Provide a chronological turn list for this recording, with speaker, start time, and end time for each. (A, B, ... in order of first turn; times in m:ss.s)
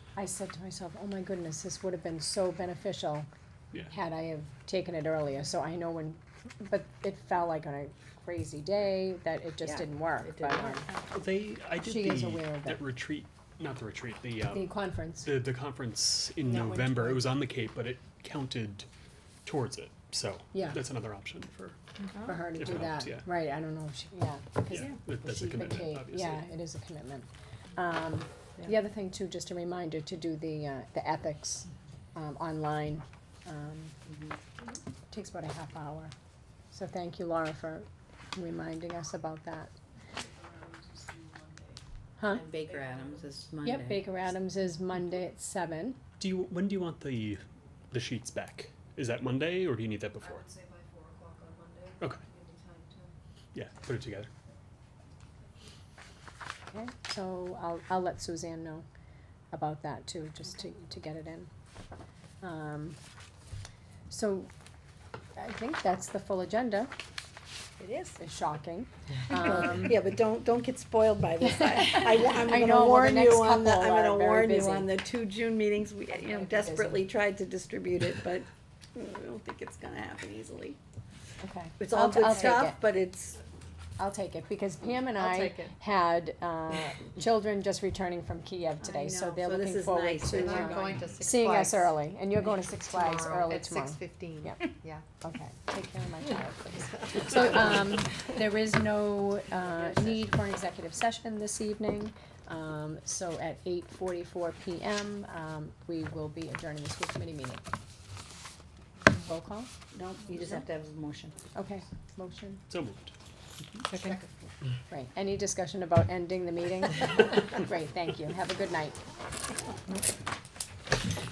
0:00.1-0:03.3 A
0:03.9-0:10.9 A
0:09.6-0:11.1 B
0:11.1-0:18.9 C
0:11.8-0:12.9 A
0:14.5-0:15.4 A
0:16.6-0:17.0 A
0:19.4-0:21.8 C
0:20.5-0:20.8 A
0:22.1-0:22.5 B
0:22.2-0:33.9 A
0:22.6-0:23.2 C
0:24.7-0:26.5 C
0:34.0-0:34.4 B
0:35.1-0:36.1 A
0:36.7-0:39.7 A
0:40.1-0:41.8 D
0:42.3-0:44.3 B
0:42.5-0:43.4 D
0:43.6-0:46.0 A
0:46.2-0:50.5 C
0:50.2-0:53.1 D
0:53.5-0:54.3 C
0:56.7-0:58.8 A
0:59.5-1:01.5 A
1:02.4-1:03.0 A
1:04.1-1:04.5 A
1:05.4-1:06.9 A
1:07.8-1:08.2 B
1:08.2-1:09.9 A
1:09.3-1:20.8 B
1:12.5-1:14.9 A
1:16.1-1:17.0 A
1:21.4-1:22.8 A
1:21.8-1:23.4 B
1:22.3-1:22.6 D
1:24.0-1:34.6 A
1:25.1-1:25.7 D
1:28.8-1:31.1 B
1:30.2-1:35.1 D
1:35.2-1:47.7 A
1:39.7-1:40.2 B
1:49.1-1:49.7 A
1:49.9-1:51.4 B
1:51.5-1:52.6 A
1:52.7-1:53.1 C
1:53.9-1:54.2 D
1:54.9-1:59.0 A